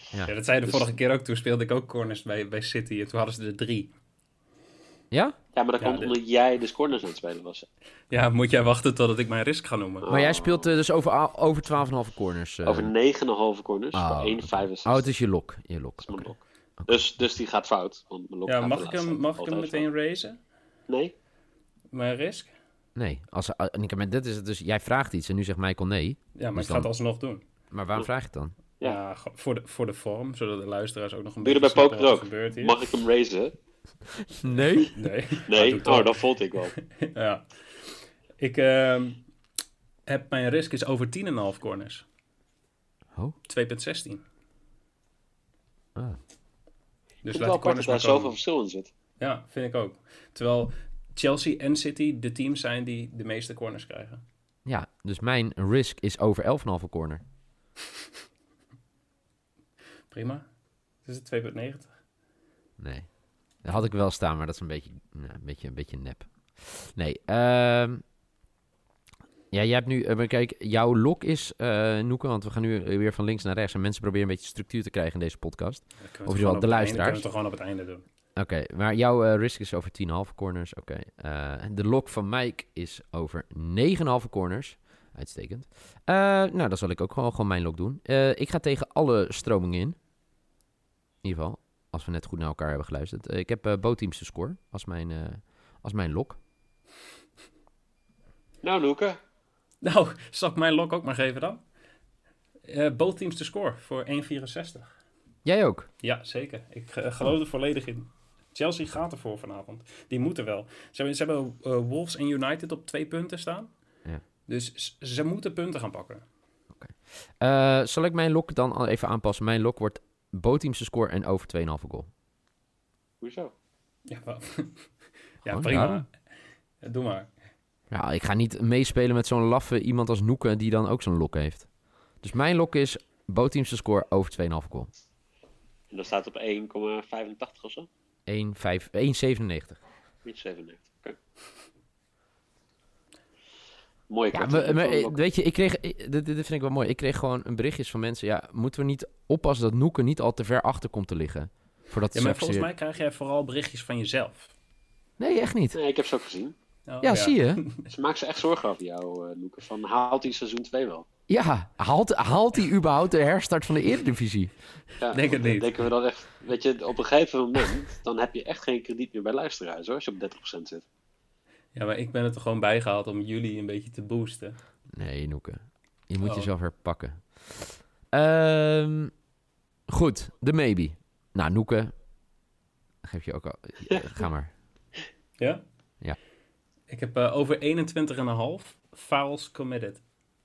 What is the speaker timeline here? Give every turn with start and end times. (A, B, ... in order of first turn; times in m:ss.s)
0:00.2-0:03.9 A
0:00.6-0:00.9 B
0:05.5-0:07.7 B
0:05.8-0:06.2 A
0:08.1-0:10.1 A
0:10.0-0:10.8 B
0:10.1-0:12.9 C
0:12.6-0:15.1 B
0:13.9-0:16.3 C
0:16.0-0:19.9 B
0:16.8-0:17.0 C
0:18.5-0:20.4 A
0:20.9-0:21.1 B
0:21.9-0:22.5 A
0:23.0-0:26.9 C
0:26.4-0:27.4 A
0:27.7-0:28.6 C
0:28.8-0:32.8 A
0:31.4-0:33.6 B
0:34.2-0:35.0 C
0:34.5-0:36.2 A
0:35.5-0:36.8 B
0:37.0-0:37.5 A
0:38.4-0:39.2 A
0:40.1-0:42.0 A
0:43.5-0:44.2 A
0:47.2-0:48.4 A
0:47.3-0:48.9 B
0:49.2-0:54.2 A
0:54.6-0:57.2 C
1:00.1-1:00.5 A
1:01.0-1:02.0 A
1:02.8-1:03.1 C
1:03.6-1:08.0 C
1:09.5-1:17.3 C
1:16.0-1:18.0 A
1:18.4-1:30.0 C
1:31.2-1:36.4 C
1:38.6-1:39.2 B
1:39.8-1:41.6 A
1:42.7-1:44.9 A
1:45.4-1:45.9 C
1:46.0-1:53.7 A
1:54.5-1:56.2 A
1:56.8-2:02.1 C
2:03.2-2:03.5 B
2:04.1-2:04.9 A
2:05.4-2:06.1 A
2:05.4-2:06.0 C
2:06.8-2:07.3 A
2:07.9-2:11.7 C
2:12.2-2:14.9 C
2:15.9-2:17.9 B
2:18.3-2:19.8 C
2:20.2-2:21.2 B
2:24.1-2:25.2 B
2:24.3-2:32.7 C
2:32.1-2:34.5 A
2:35.2-2:35.8 C
2:35.7-2:36.6 B
2:36.9-2:37.9 A
2:37.0-2:37.6 C
2:37.9-2:41.1 B
2:41.3-2:44.5 C
2:45.0-2:50.8 B
2:45.1-2:45.8 A
2:51.7-2:54.6 A
2:54.9-2:59.1 C
2:56.2-2:56.5 A
2:59.9-3:01.9 C
3:03.0-3:04.5 C
3:06.9-3:10.0 A